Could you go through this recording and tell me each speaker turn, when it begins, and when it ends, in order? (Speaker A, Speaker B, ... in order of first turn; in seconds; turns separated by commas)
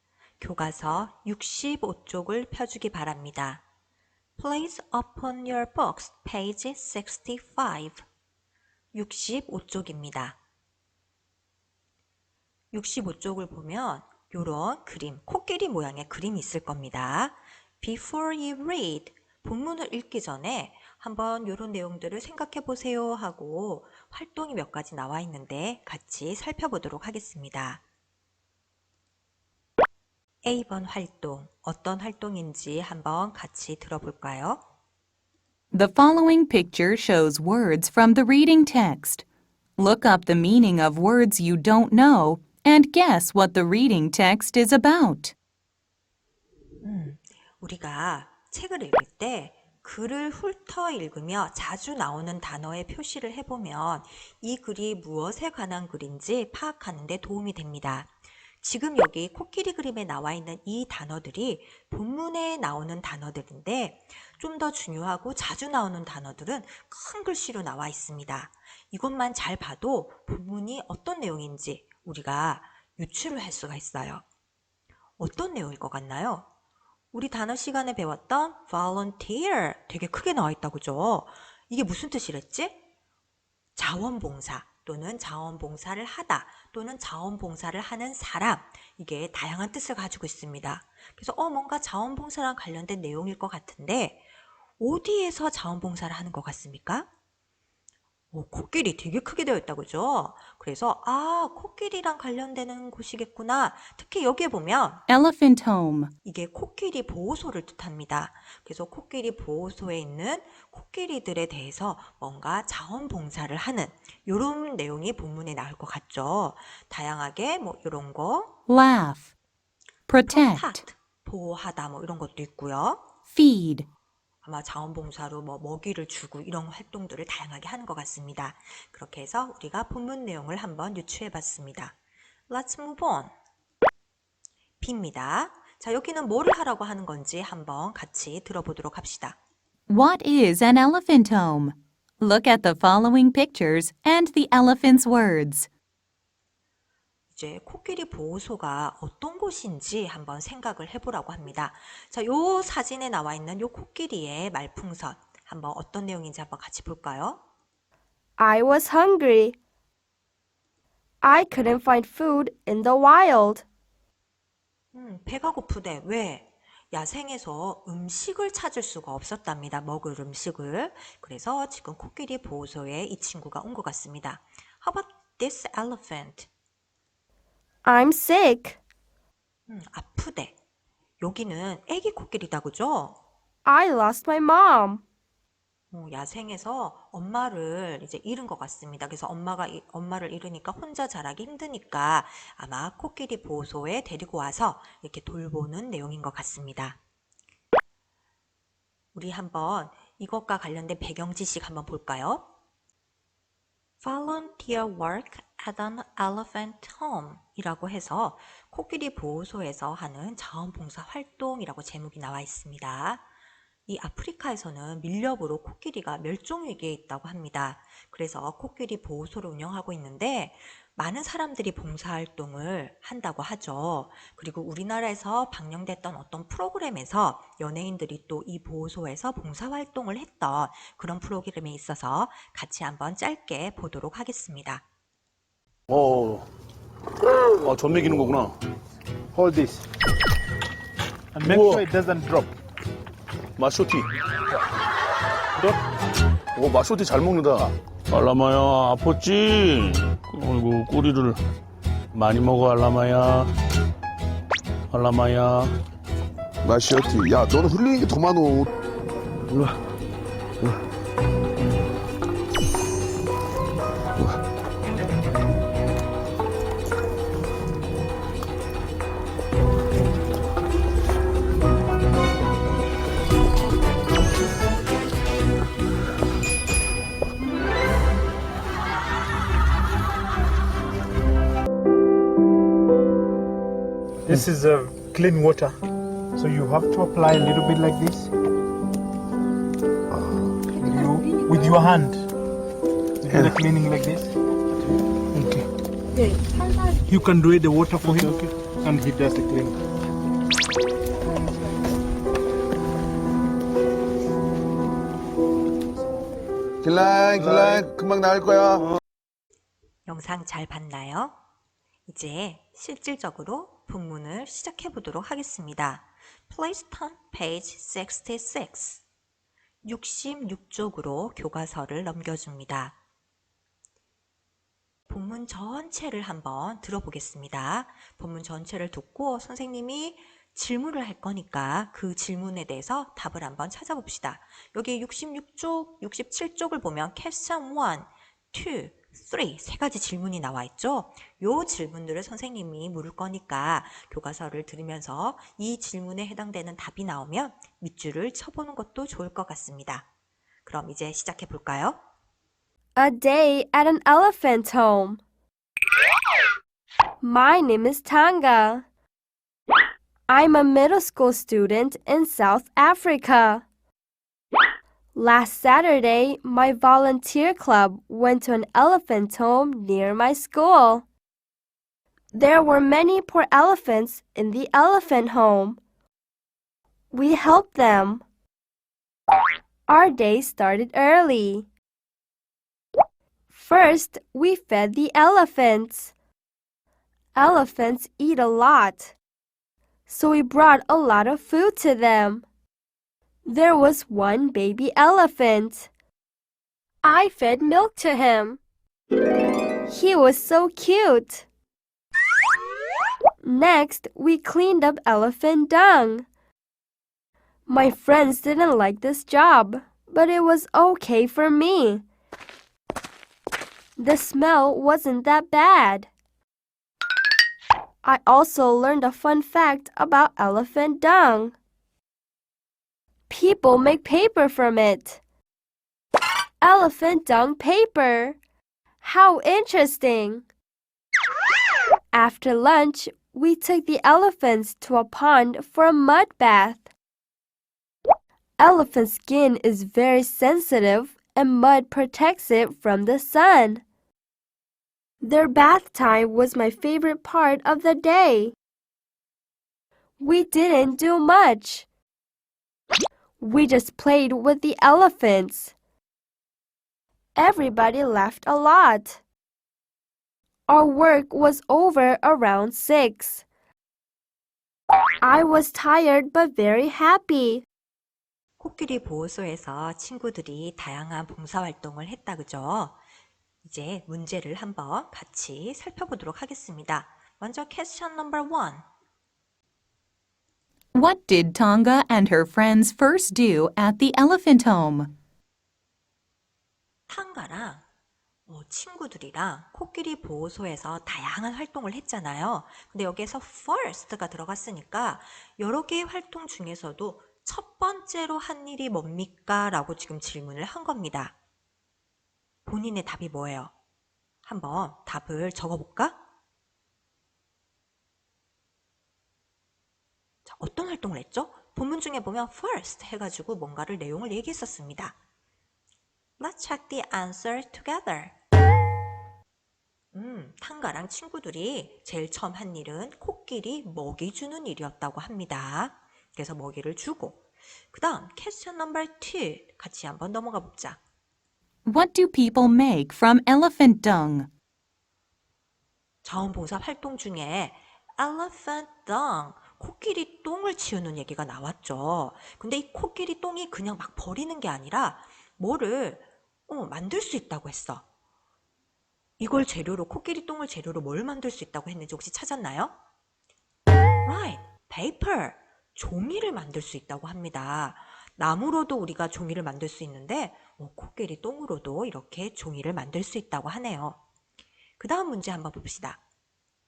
Speaker A: 0.4-3.6, Speaker A: 4.4-8.1, Speaker A: 8.9-10.4, Speaker A: 12.7-27.8, Speaker A: 30.4-34.6, Speaker B: 35.7-39.2, Speaker B: 39.8-45.3, Speaker A: 46.8-74.2, Speaker A: 75.2-76.5, Speaker A: 77.1-82.9, Speaker A: 83.8-94.2, Speaker A: 94.8-97.1, Speaker A: 98.3-105.0, Speaker B: 105.1-106.1, Speaker A: 106.2-118.6, Speaker B: 118.7-119.3, Speaker B: 120.1-120.8, Speaker A: 120.3-123.1, Speaker B: 123.3-123.9, Speaker A: 124.4-131.9, Speaker A: 132.5-133.3, Speaker A: 134.8-139.4, Speaker B: 139.9-145.7, Speaker A: 147.3-157.4, Speaker C: 158.4-159.6, Speaker C: 161.2-163.6, Speaker A: 164.9-176.5, Speaker C: 177.8-178.8, Speaker A: 179.7-180.6, Speaker A: 181.2-183.2, Speaker C: 183.6-185.0, Speaker A: 185.9-197.0, Speaker A: 199.1-202.5, Speaker A: 204.0-213.2, Speaker A: 213.9-234.8, Speaker D: 235.9-236.5, Speaker D: 237.6-238.5, Speaker E: 239.3-239.8, Speaker E: 241.3-242.5, Speaker D: 241.4-241.9, Speaker D: 243.6-244.1, Speaker D: 246.5-251.4, Speaker D: 252.1-253.5, Speaker D: 254.9-255.8, Speaker F: 256.7-258.6, Speaker E: 284.3-285.7, Speaker E: 286.4-288.3, Speaker E: 290.8-292.2, Speaker E: 293.2-294.3, Speaker E: 295.4-295.6, Speaker E: 297.1-299.8, Speaker F: 307.4-308.8, Speaker A: 310.1-311.4, Speaker A: 312.1-319.0, Speaker A: 319.8-323.0, Speaker A: 325.1-350.1, Speaker A: 350.6-352.0, Speaker C: 352.9-355.2, Speaker C: 357.2-358.9, Speaker C: 360.3-363.6, Speaker C: 365.1-371.0, Speaker C: 372.3-375.8, Speaker C: 377.1-378.2, Speaker C: 379.9-381.7, Speaker C: 383.5-386.1, Speaker C: 387.3-389.1, Speaker C: 390.1-392.4, Speaker C: 393.4-395.9, Speaker C: 397.0-398.6, Speaker C: 399.9-401.4, Speaker C: 403.4-406.2, Speaker C: 407.7-412.0, Speaker C: 414.0-416.1, Speaker C: 418.0-421.5, Speaker C: 423.3-425.2, Speaker C: 426.6-428.4, Speaker C: 429.0-430.4, Speaker C: 432.1-436.9, Speaker C: 438.6-443.8, Speaker C: 445.2-448.5, Speaker C: 450.2-451.9, Speaker C: 453.4-455.7, Speaker C: 457.4-459.2, Speaker C: 460.7-463.4, Speaker C: 465.2-467.6, Speaker A: 468.6-473.0, Speaker A: 473.6-478.9, Speaker B: 480.9-485.1, Speaker A: 487.1-487.9, Speaker A: 488.5-501.4, Speaker A: 502.6-503.7, Speaker A: 504.4-506.2, Speaker A: 510.4-515.1, Speaker A: 516.4-518.3, Speaker A: 520.1-531.0, Speaker B: 531.9-534.5, Speaker A: 536.2-548.0, Speaker A: 549.4-553.0, Speaker A: 554.2-564.2, Speaker A: 565.0-566.2